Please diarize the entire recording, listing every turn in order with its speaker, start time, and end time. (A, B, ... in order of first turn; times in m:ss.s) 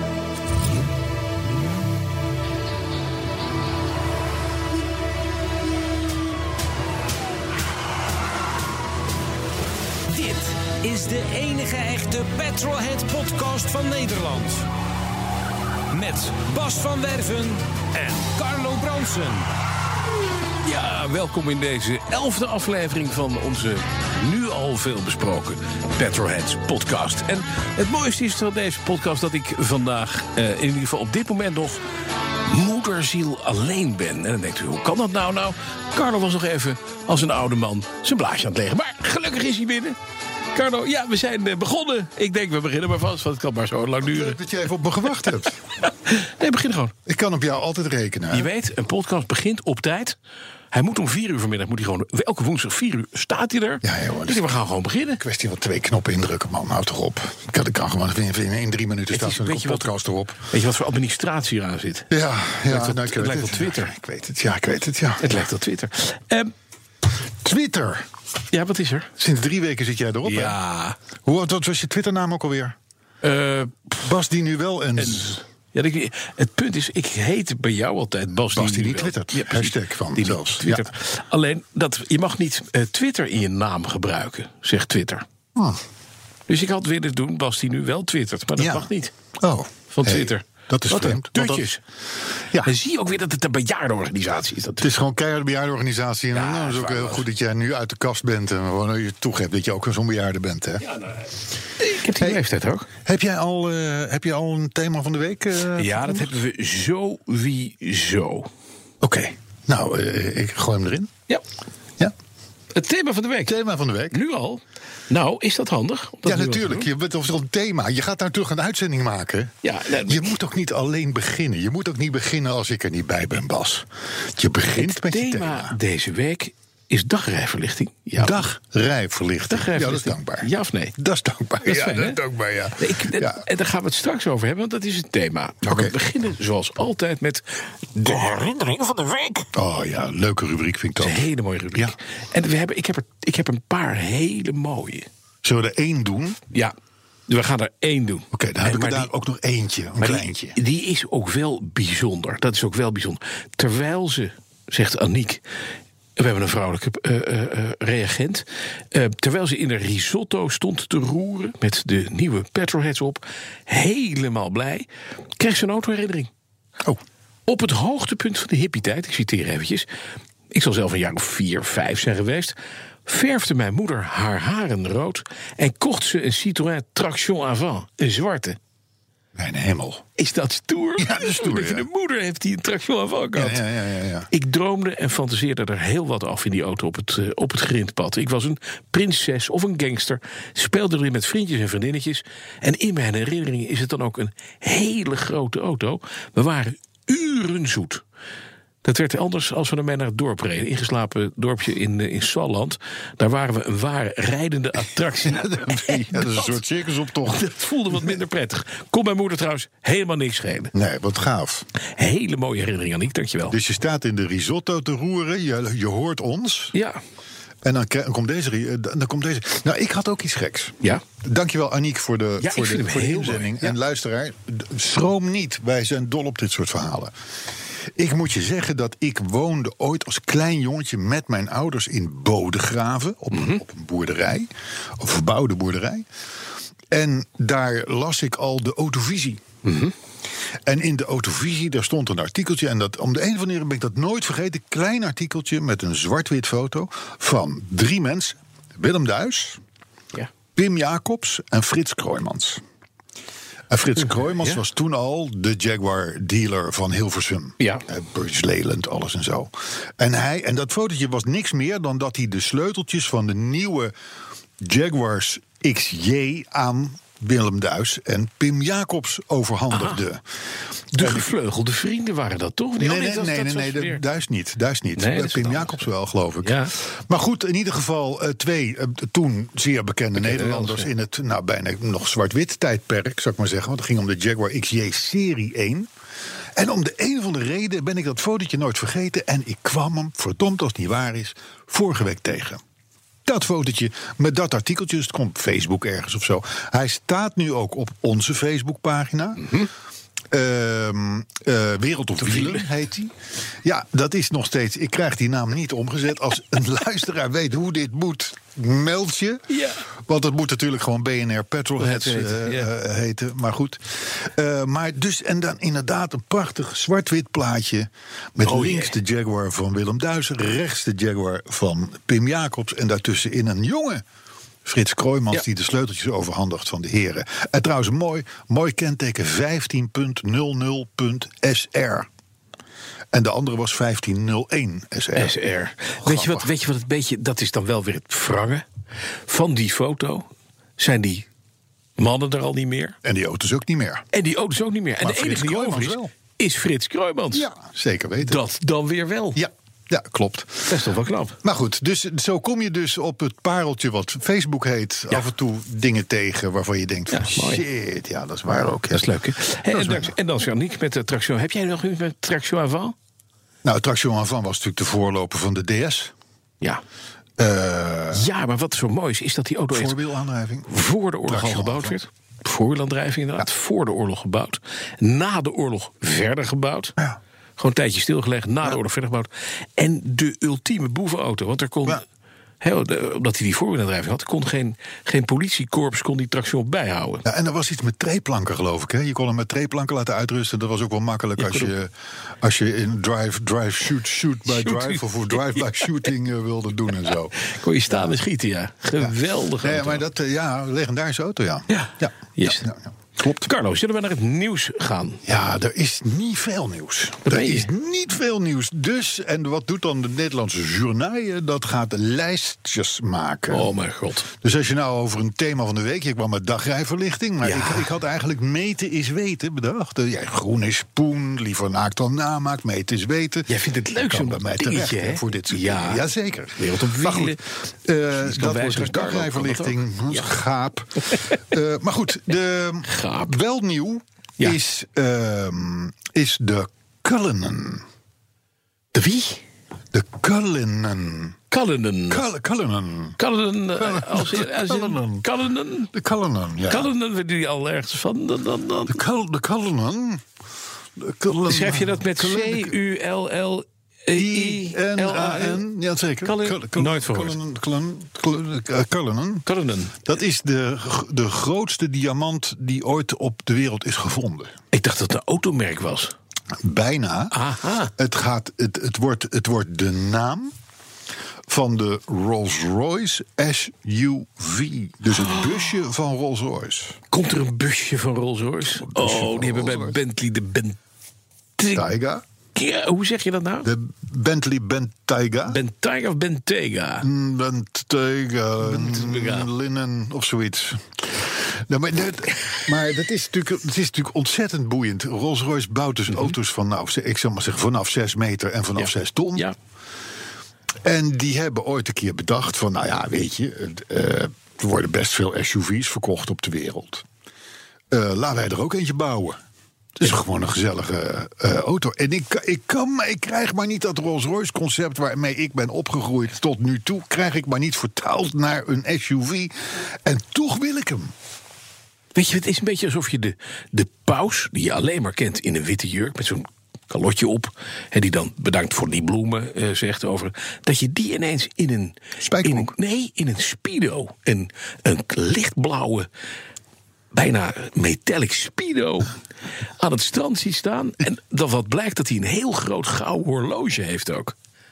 0:10.1-0:14.7 A
0:15.9-0:19.5 A
0:20.6-0:31.8 B
0:32.4-0:40.0 B
0:40.5-0:44.4 B
0:44.0-0:45.6 C
0:45.2-0:46.9 B
0:47.1-0:48.5 C
0:48.3-0:50.2 B
0:50.7-0:55.2 B
0:53.8-0:54.5 C
0:55.2-1:00.4 C
0:59.1-0:59.9 B
1:00.5-1:02.1 B
1:02.1-1:05.4 C
1:02.7-1:03.9 B
1:05.2-1:06.5 B
1:07.4-1:08.1 C
1:08.5-1:09.1 B
1:09.2-1:10.6 C
1:10.2-1:11.0 B
1:11.2-1:12.8 C
1:13.2-1:14.0 B
1:14.0-1:15.4 C
1:15.0-1:25.2 B
1:18.5-1:20.9 C
1:25.6-1:25.8 C
1:26.5-1:29.1 B
1:28.6-1:31.7 C
1:29.9-1:31.8 B
1:32.6-1:34.9 B
1:34.8-1:40.9 C
1:36.3-1:37.3 B
1:40.9-1:41.2 B
1:41.8-1:42.9 B
1:43.0-1:46.3 C
1:45.7-1:48.5 B
1:49.0-1:51.1 C
1:52.7-1:53.6 B
1:53.5-1:54.2 C
1:54.1-1:56.9 B
1:56.2-2:05.8 C
1:59.6-2:00.3 B
2:04.8-2:08.4 B
2:08.2-2:13.4 C
2:09.5-2:10.9 B
2:11.6-2:12.2 B
2:12.8-2:17.4 B
2:15.6-2:15.9 C
2:18.0-2:19.5 B
2:19.5-2:22.0 C
2:21.0-2:25.1 B
2:25.4-2:26.4 C
2:27.3-2:29.1 B
2:28.3-2:30.6 C
2:30.0-2:35.4 B
2:36.2-2:44.9 B
2:45.4-2:46.3 B
2:47.5-2:49.9 B
2:50.5-2:52.6 B
2:53.1-2:58.6 B
2:59.4-3:00.0 C
3:00.2-3:03.6 B
3:01.0-3:01.9 C
3:03.3-3:04.3 C
3:04.3-3:18.0 B
3:18.8-3:26.6 B
3:25.2-3:28.2 C
3:27.3-3:30.7 B
3:30.7-3:31.7 C
3:32.0-3:33.6 B
3:33.5-3:36.8 C
3:36.8-3:37.0 B
3:37.6-3:47.1 C
3:42.4-3:43.8 B
3:48.0-3:56.1 C
3:53.3-3:53.6 B
3:56.9-3:59.4 C
3:59.6-3:59.9 B
4:00.7-4:09.6 C
4:10.6-4:12.6 C
4:13.7-4:23.9 C
4:24.6-4:30.2 C
4:29.7-4:30.0 B
4:30.9-4:31.3 C
4:31.0-4:34.0 B
4:32.8-4:45.9 C
4:35.0-4:35.9 B
4:36.4-4:36.7 B
4:40.2-4:40.9 B
4:46.6-4:52.6 C
4:53.2-4:59.6 C
5:00.3-5:03.1 C
5:02.2-5:02.7 B
5:03.6-5:24.0 C
5:09.5-5:09.8 B
5:11.8-5:12.7 B
5:18.4-5:18.9 B
5:24.6-5:32.1 C
5:33.1-5:35.4 C
5:35.2-5:38.6 B
5:36.0-5:36.5 C
5:39.3-5:41.3 B
5:42.0-5:43.0 B
5:43.0-5:44.0 C
5:44.1-5:47.5 B
5:45.0-5:46.1 C
5:47.3-5:48.4 C
5:48.2-5:49.4 B
5:49.4-5:50.8 C
5:50.7-5:51.4 B
5:51.4-5:59.1 C
5:57.1-5:57.6 B
5:58.9-6:03.0 B
5:59.7-6:00.2 C
6:03.6-6:06.1 C
6:07.4-6:08.3 C
6:08.1-6:10.0 B
6:09.7-6:10.7 C
6:10.7-6:16.9 B
6:11.3-6:12.0 C
6:17.6-6:22.0 B
6:22.6-6:27.3 B
6:27.3-6:38.1 C
6:31.4-6:31.7 B
6:34.5-6:35.8 B
6:37.4-6:40.0 B
6:39.0-6:43.5 C
6:41.7-6:42.7 B
6:43.4-6:45.2 B
6:45.2-6:53.7 C
6:47.3-6:47.7 B
6:53.5-6:54.3 B
6:54.4-7:17.8 C
6:57.4-6:57.9 B
7:03.5-7:06.0 B
7:06.6-7:07.4 B
7:08.2-7:10.3 B
7:12.9-7:13.4 B
7:18.9-7:19.4 B
7:19.9-7:21.4 C
7:21.5-7:22.3 B
7:22.1-7:23.2 C
7:23.2-7:25.9 B
7:23.8-7:25.3 C
7:25.9-7:26.9 C
7:26.7-7:29.0 B
7:28.9-7:30.2 C
7:31.0-7:32.8 C
7:31.5-7:35.6 B
7:34.1-7:39.5 C
7:36.2-7:37.4 B
7:39.5-7:40.1 B
7:40.0-7:44.6 C
7:44.7-7:46.1 B
7:46.6-7:47.4 C
7:47.3-7:47.9 B
7:48.0-7:50.5 C
7:51.5-7:57.0 C
7:55.1-7:55.8 B
7:57.1-8:00.8 B
7:58.8-8:00.0 C
8:01.6-8:01.8 B
8:01.7-8:02.2 C
8:02.6-8:03.7 B
8:03.6-8:05.6 C
8:05.5-8:07.1 B
8:07.0-8:19.5 C
8:08.6-8:09.5 B
8:18.8-8:19.6 B
8:20.8-8:27.0 C
8:27.9-8:29.4 C
8:30.0-8:41.1 C
8:42.2-8:56.1 B
8:52.2-8:52.7 C
8:57.1-8:59.2 B
8:59.8-9:04.3 B